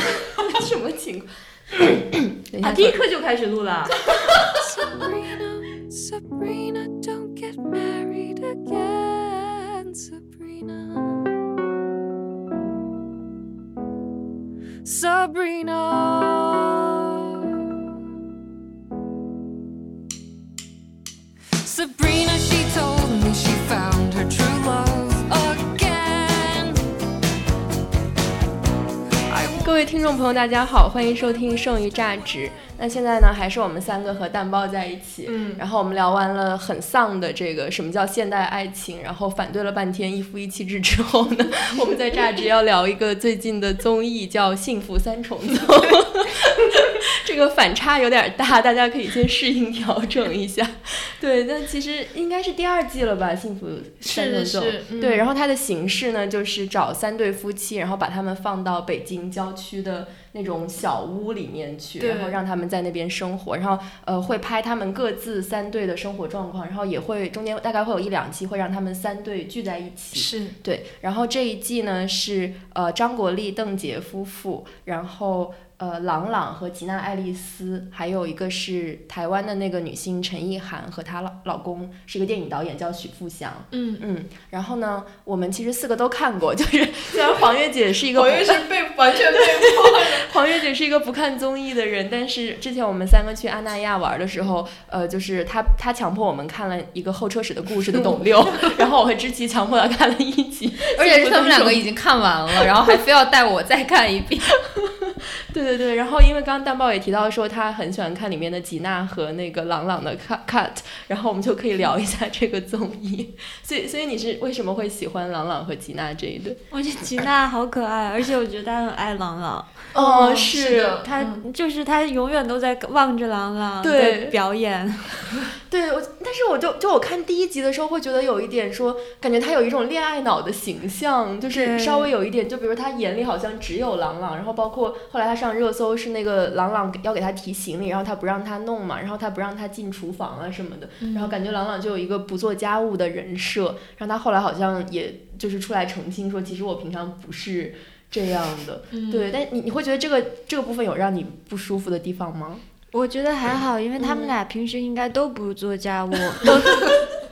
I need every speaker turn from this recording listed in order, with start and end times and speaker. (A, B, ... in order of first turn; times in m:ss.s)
0:00.3-0:03.0 A
0:02.6-0:04.0 B
0:04.5-0:11.3 C
0:14.8-0:17.7 C
0:21.6-0:26.8 C
0:29.3-0:29.8 C
0:29.6-1:28.7 A
0:35.3-0:35.6 D
0:54.0-0:55.3 D
1:02.0-1:02.4 D
1:10.2-1:10.6 D
1:23.7-1:24.0 D
1:28.1-1:30.3 D
1:30.2-1:41.8 A
1:41.0-1:44.6 E
1:45.5-1:56.6 A
1:56.7-1:59.9 B
1:59.9-2:01.4 D
1:59.9-2:01.0 A
2:01.0-2:05.3 B
2:03.8-2:04.4 A
2:05.7-2:32.6 A
2:11.5-2:12.1 B
2:21.0-2:21.3 D
2:28.9-2:29.3 D
2:32.9-2:37.0 B
2:34.0-2:34.3 A